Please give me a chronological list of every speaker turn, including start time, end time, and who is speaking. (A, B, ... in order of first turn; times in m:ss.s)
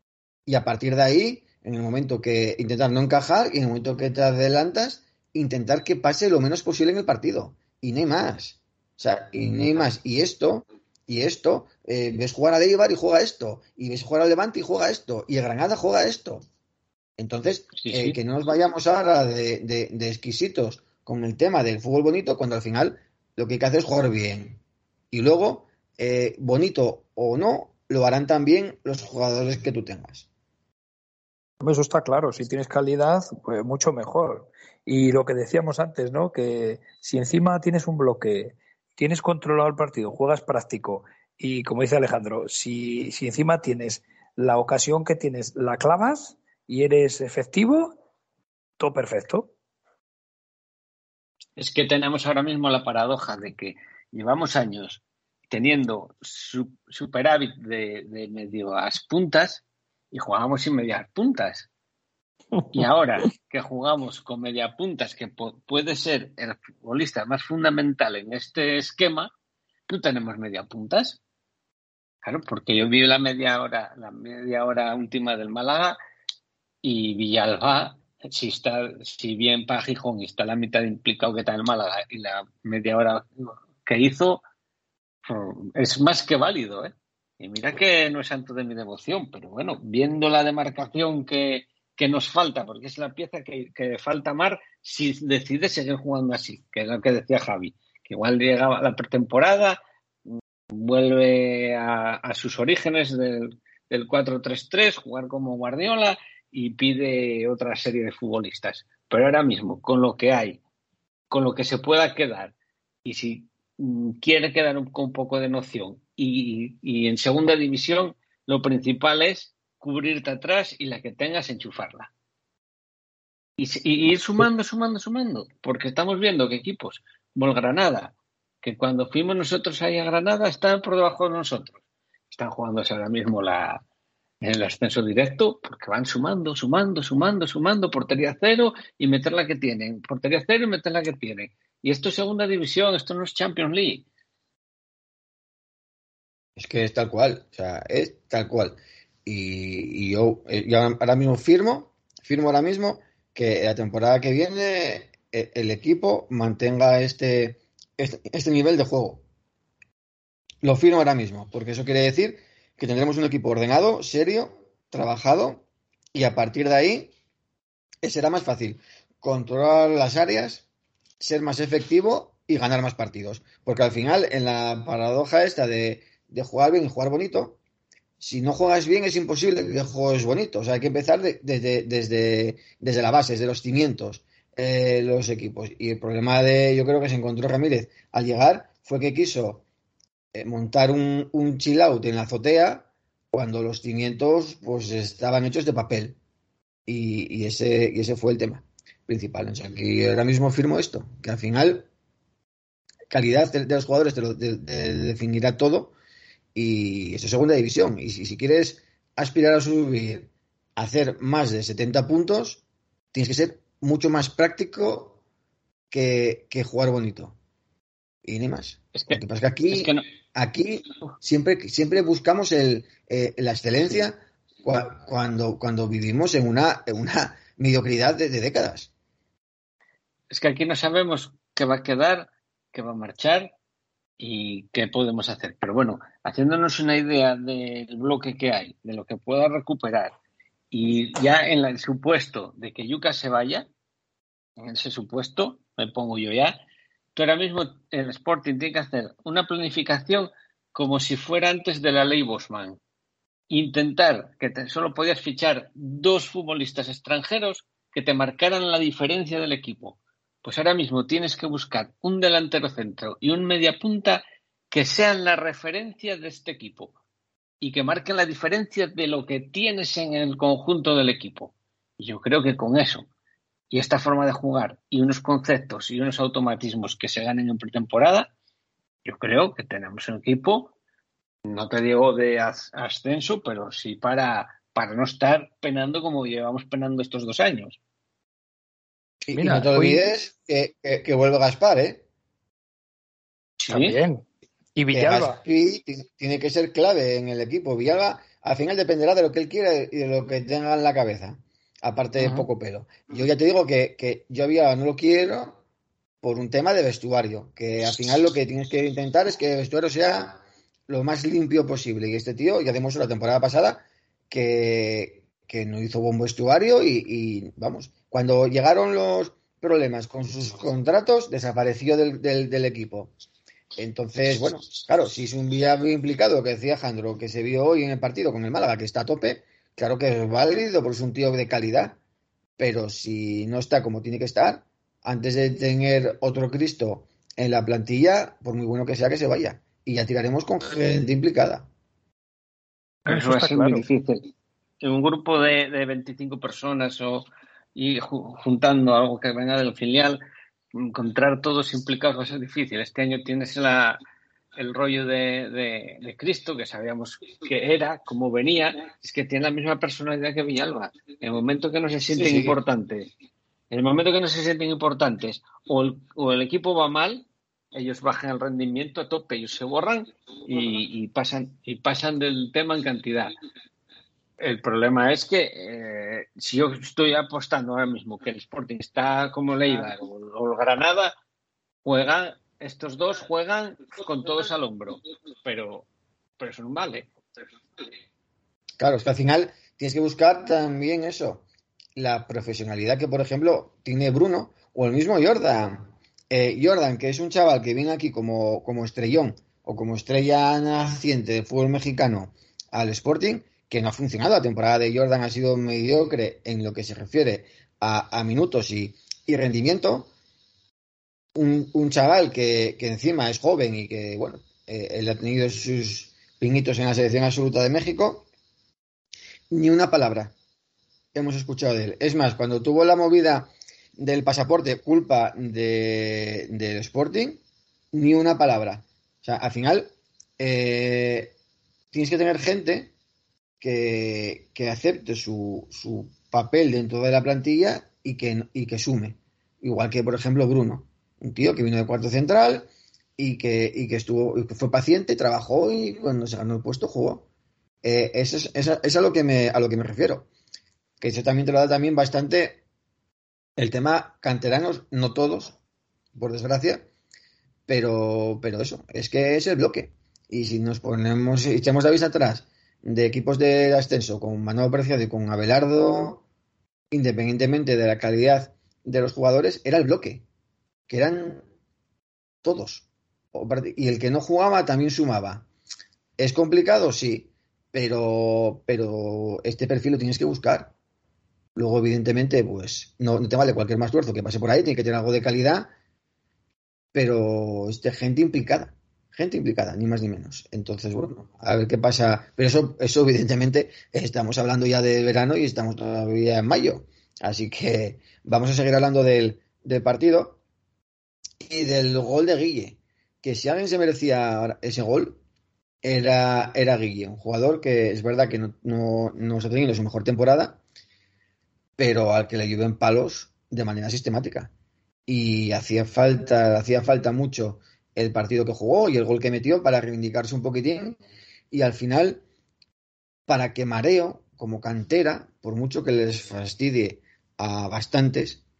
0:00.4-0:16.4 A
0:17.2-0:24.6 A
0:17.8-0:18.2 B
0:25.1-0:30.2 A
0:31.6-0:48.0 C
0:48.8-0:49.5 C
0:51.6-1:01.7 B
1:02.6-1:02.8 C
1:02.7-1:09.3 B
1:09.9-1:11.2 B
1:12.2-1:16.0 B
1:16.8-1:24.4 B
1:25.2-1:39.8 B
1:40.7-1:50.6 B
1:51.3-1:52.5 B
1:53.0-2:02.1 B
2:03.6-2:11.8 B
2:12.3-2:13.8 B
2:14.4-2:24.0 B
2:26.6-2:39.2 A
2:40.6-2:47.1 A
2:48.0-2:50.6 A
2:51.2-2:57.6 A
2:58.2-3:09.6 A
3:10.3-3:16.2 A
3:16.8-3:21.9 A
3:23.1-3:25.9 A
3:26.5-3:32.6 A
3:33.1-3:35.2 A
3:35.9-3:37.4 A
3:38.2-3:48.9 A
3:38.9-3:40.0 B
3:50.3-3:53.5 B
3:54.2-4:00.1 B
4:00.7-4:03.6 B
4:04.6-4:06.6 B
4:07.1-4:12.8 B
4:13.5-4:26.9 B
4:27.6-4:33.1 B
4:33.7-4:38.3 B
4:39.0-4:40.7 B
4:41.4-4:47.8 B
4:49.2-4:52.0 A
4:49.3-4:50.0 C
4:53.6-4:54.2 C
4:53.7-4:54.0 B
4:54.7-4:55.4 C
4:54.9-5:05.6 A
5:06.2-5:23.1 A
5:23.8-5:32.0 A
5:32.6-5:41.7 A
5:43.0-5:43.9 C
5:43.0-5:44.3 B
5:44.8-5:50.2 B
5:50.7-5:54.0 B
5:54.6-6:03.1 B
6:02.1-6:02.6 A
6:03.7-6:13.3 B
6:14.4-6:21.1 B
6:21.8-6:25.9 B
6:26.4-6:27.1 B
6:28.8-6:31.4 A
6:32.0-6:50.1 A
6:51.3-6:58.3 A
6:59.5-7:00.3 A
7:01.1-7:07.4 A
7:07.9-7:11.3 A
7:11.9-7:12.9 A
7:13.6-7:27.2 A
7:27.8-7:30.3 A
7:31.0-7:32.6 A
7:33.6-7:35.6 A
7:36.1-7:36.8 A
7:37.7-7:46.2 A
7:46.9-7:50.2 A
7:50.9-7:51.4 A
7:52.4-7:55.5 A
7:56.2-8:00.7 A
8:01.5-8:05.7 A
8:06.9-8:20.4 A
8:21.4-8:25.2 A
8:25.8-8:30.6 A
8:31.8-8:34.5 A
8:35.1-8:41.0 A
8:41.5-8:42.2 A
8:43.3-8:48.4 A